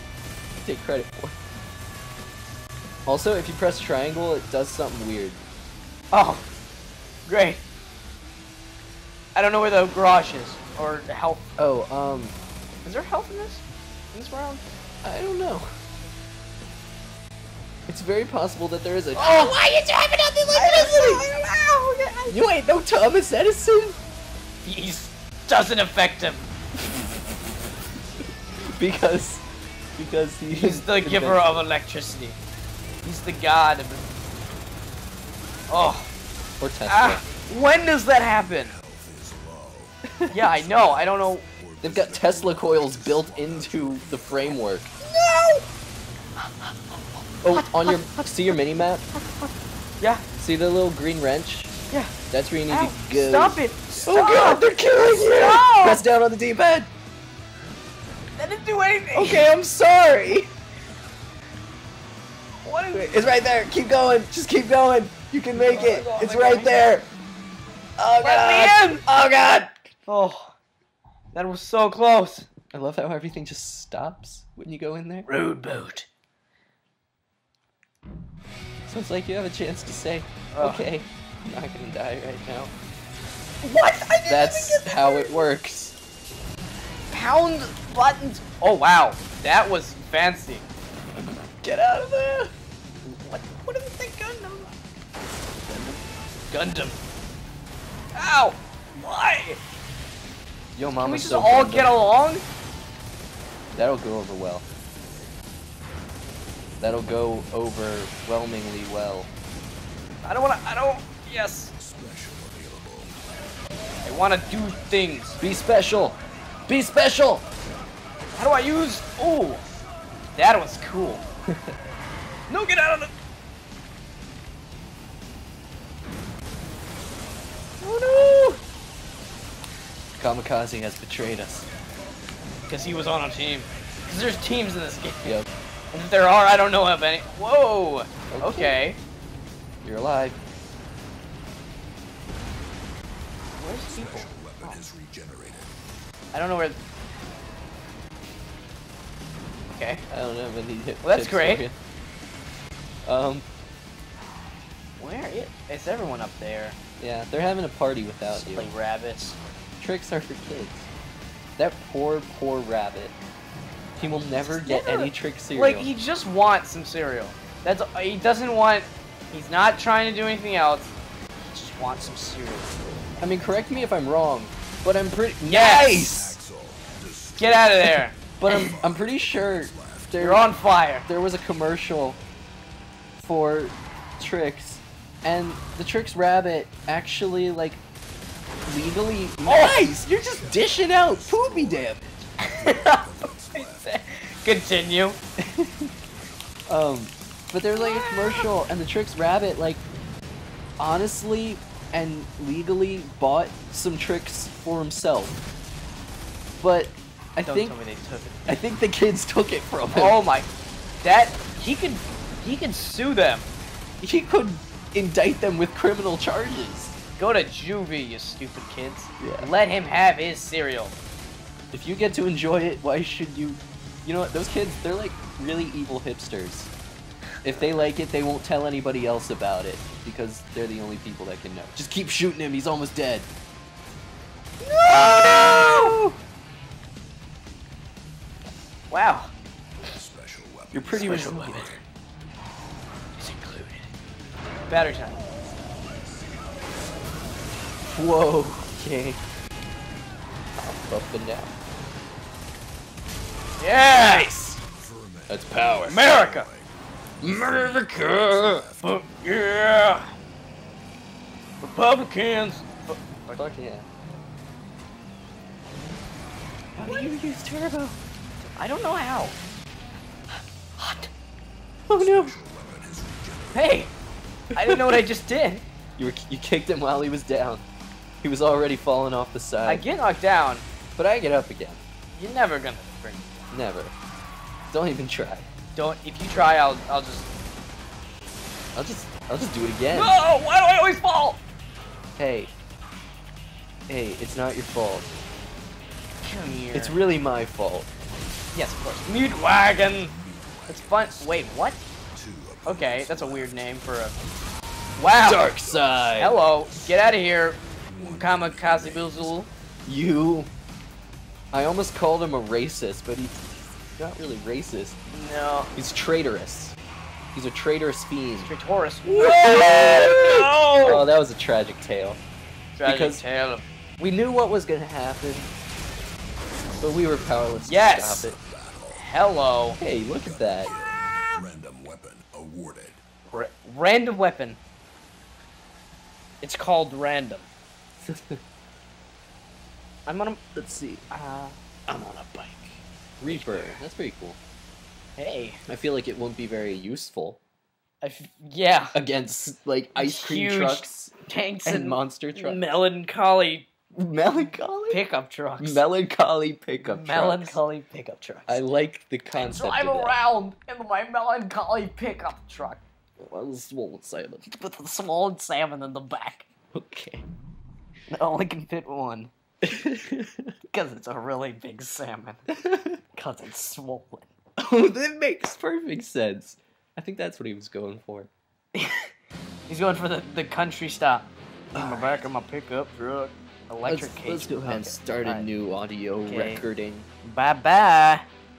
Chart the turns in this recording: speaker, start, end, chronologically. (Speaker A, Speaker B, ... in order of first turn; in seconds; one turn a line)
Speaker A: 0.6-1.4
Speaker A: 3.0-5.4
Speaker B: 6.1-6.4
Speaker B: 7.2-7.6
Speaker B: 9.3-11.4
Speaker A: 11.6-12.4
Speaker B: 12.8-14.6
Speaker A: 15.0-15.7
Speaker A: 17.9-21.3
Speaker B: 19.1-19.6
Speaker B: 20.5-22.5
Speaker A: 22.3-24.0
Speaker B: 24.6-26.5
Speaker A: 28.7-29.4
Speaker A: 30.0-31.6
Speaker B: 30.5-32.4
Speaker B: 33.0-34.1
Speaker B: 35.7-36.1
Speaker A: 36.6-37.2
Speaker B: 36.9-38.8
Speaker C: 38.6-44.6
Speaker B: 40.3-41.4
Speaker A: 41.8-44.9
Speaker B: 45.0-45.6
Speaker A: 47.4-49.0
Speaker B: 47.5-48.5
Speaker B: 49.2-50.2
Speaker A: 50.4-51.7
Speaker A: 52.3-56.9
Speaker B: 52.7-56.0
Speaker C: 53.9-54.8
Speaker B: 58.4-59.5
Speaker A: 59.1-60.5
Speaker B: 62.6-63.3
Speaker A: 62.9-67.1
Speaker B: 65.5-66.8
Speaker A: 68.0-69.7
Speaker B: 68.2-69.0
Speaker B: 70.0-70.5
Speaker B: 71.3-72.5
Speaker A: 72.7-75.3
Speaker B: 75.2-76.1
Speaker A: 78.8-82.7
Speaker B: 80.5-80.9
Speaker B: 83.6-85.5
Speaker A: 84.2-85.9
Speaker B: 87.1-90.7
Speaker A: 91.2-92.5
Speaker B: 93.0-94.7
Speaker A: 95.7-96.0
Speaker B: 96.5-97.0
Speaker B: 98.1-99.6
Speaker A: 100.7-102.0
Speaker B: 101.0-102.4
Speaker A: 103.7-104.6
Speaker A: 106.8-109.3
Speaker B: 110.2-111.7
Speaker C: 111.8-113.2
Speaker B: 114.0-115.4
Speaker A: 115.4-117.4
Speaker B: 118.3-119.6
Speaker B: 120.3-121.2
Speaker B: 122.5-123.1
Speaker A: 127.9-128.5
Speaker B: 127.9-128.6
Speaker A: 130.2-131.7
Speaker B: 132.7-135.3
Speaker A: 135.2-135.5
Speaker B: 135.9-139.0
Speaker A: 138.3-138.8
Speaker A: 139.8-140.4
Speaker B: 143.6-144.8
Speaker C: 143.8-145.7
Speaker B: 146.3-146.8
Speaker B: 149.7-150.0
Speaker A: 150.1-151.8
Speaker B: 151.0-151.7
Speaker A: 153.1-153.4
Speaker B: 155.0-156.8
Speaker A: 157.0-158.7
Speaker B: 158.3-159.4
Speaker A: 159.8-160.9
Speaker A: 161.6-163.2
Speaker A: 164.0-165.9
Speaker B: 164.5-170.9
Speaker B: 171.5-172.8
Speaker A: 173.2-176.4
Speaker B: 175.4-176.1
Speaker C: 175.8-177.9
Speaker B: 177.4-178.7
Speaker A: 178.4-180.5
Speaker C: 178.6-180.1
Speaker B: 180.2-181.1
Speaker A: 181.0-182.2
Speaker A: 183.2-187.8
Speaker A: 188.7-192.1
Speaker B: 189.4-189.8
Speaker C: 190.1-193.9
Speaker B: 192.4-193.0
Speaker B: 193.5-195.2
Speaker A: 195.4-195.9
Speaker A: 196.7-199.8
Speaker B: 197.8-198.4
Speaker A: 200.8-205.4
Speaker A: 206.6-207.8
Speaker B: 207.4-208.5
Speaker A: 208.5-210.2
Speaker B: 209.9-210.5
Speaker B: 211.0-213.5
Speaker A: 214.0-216.9
Speaker B: 217.2-221.0
Speaker A: 219.2-219.5
Speaker A: 221.7-226.7
Speaker A: 227.4-233.3
Speaker B: 227.5-227.7
Speaker B: 234.6-236.0
Speaker A: 234.9-236.1
Speaker B: 238.9-239.3
Speaker C: 239.8-241.8
Speaker A: 240.7-241.7
Speaker B: 240.9-241.8
Speaker B: 243.2-243.9
Speaker B: 244.7-245.2
Speaker C: 245.8-246.9
Speaker A: 247.9-249.2
Speaker A: 250.6-251.5
Speaker B: 253.6-254.3
Speaker A: 254.0-254.6
Speaker C: 254.3-259.0
Speaker A: 255.3-256.1
Speaker B: 255.9-256.5
Speaker A: 257.2-258.6
Speaker B: 258.8-260.1
Speaker B: 261.6-263.5
Speaker A: 263.3-263.9
Speaker A: 266.7-268.0
Speaker B: 266.8-267.1
Speaker B: 268.4-269.4
Speaker B: 270.8-271.1
Speaker A: 271.9-272.3
Speaker C: 271.9-273.9
Speaker B: 273.5-273.9
Speaker A: 274.6-275.1
Speaker B: 274.6-275.6
Speaker A: 276.0-277.6
Speaker A: 278.2-279.9
Speaker B: 279.6-280.6
Speaker A: 281.0-281.8
Speaker B: 282.1-283.4
Speaker A: 283.5-283.9
Speaker A: 284.7-285.5
Speaker B: 285.7-287.3
Speaker A: 288.7-290.2
Speaker B: 289.9-291.4
Speaker A: 292.2-292.5
Speaker A: 293.9-295.1
Speaker B: 296.2-297.0
Speaker A: 296.7-297.9
Speaker B: 298.5-300.1
Speaker C: 299.2-301.5
Speaker B: 300.7-301.8
Speaker C: 302.1-303.7
Speaker B: 302.6-304.2
Speaker B: 305.0-305.5
Speaker A: 305.2-306.4
Speaker C: 305.3-307.0
Speaker B: 306.2-309.5
Speaker C: 307.8-309.4
Speaker A: 309.9-310.5
Speaker A: 311.5-313.4
Speaker A: 314.0-315.0
Speaker B: 315.1-315.7
Speaker A: 315.7-316.8
Speaker A: 317.3-318.5
Speaker B: 318.4-321.1
Speaker A: 319.0-322.2
Speaker B: 322.8-323.6
Speaker A: 322.8-323.2
Speaker A: 324.0-325.5
Speaker A: 326.8-328.4
Speaker B: 327.6-328.3
Speaker C: 328.1-329.1
Speaker B: 328.9-329.8
Speaker A: 329.8-330.7
Speaker C: 330.1-333.0
Speaker B: 333.3-334.6
Speaker B: 336.4-337.5
Speaker A: 338.0-338.4
Speaker B: 340.1-340.4
Speaker A: 340.5-341.1
Speaker B: 341.1-341.6
Speaker A: 341.9-344.4
Speaker B: 343.2-343.8
Speaker B: 345.2-345.6
Speaker A: 345.7-347.4
Speaker B: 348.0-348.9
Speaker A: 348.9-352.7
Speaker B: 349.9-353.7
Speaker A: 353.9-355.0
Speaker B: 354.9-355.8
Speaker A: 355.6-357.6
Speaker B: 356.9-358.6
Speaker A: 358.5-360.2
Speaker B: 359.3-362.8
Speaker A: 363.2-364.4
Speaker B: 364.5-366.4
Speaker A: 366.7-367.3
Speaker B: 368.1-369.3
Speaker A: 369.6-370.5
Speaker B: 370.7-372.4
Speaker A: 372.6-373.0
Speaker B: 373.1-374.3
Speaker A: 374.6-378.3
Speaker B: 378.7-379.1
Speaker B: 379.7-385.5
Speaker A: 381.7-382.3
Speaker A: 383.8-387.1
Speaker B: 386.2-386.6
Speaker B: 387.2-388.2